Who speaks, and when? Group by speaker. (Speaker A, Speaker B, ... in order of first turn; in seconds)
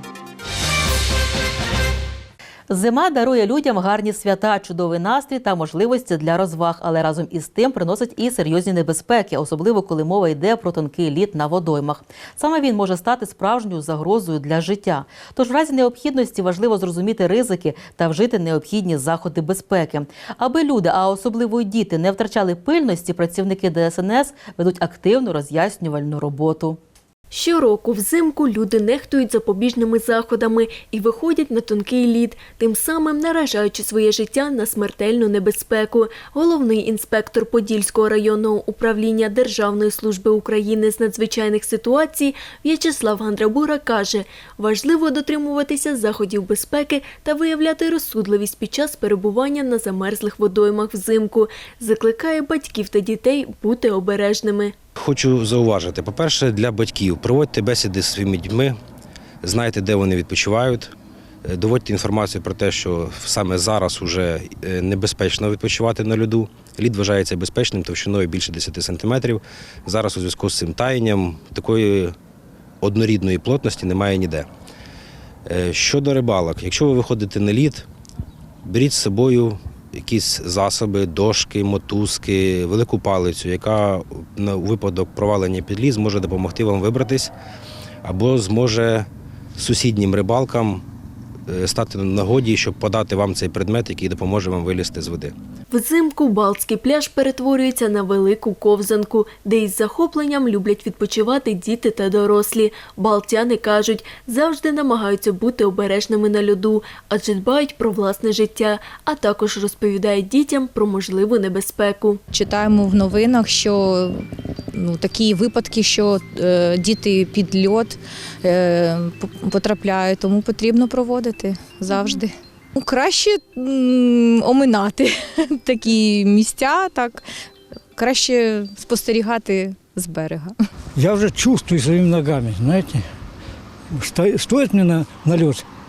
Speaker A: 2.7-26.8
Speaker B: 27.3-54.7, 95.7-112.2
Speaker C: 55.0-58.8, 59.4-60.9, 61.5-72.1, 72.8-74.5, 75.5-77.8, 78.6-87.3, 88.0-90.8, 91.5-95.3
Speaker D: 112.3-127.2, 128.0-130.5
Speaker E: 130.9-133.1, 133.9-135.6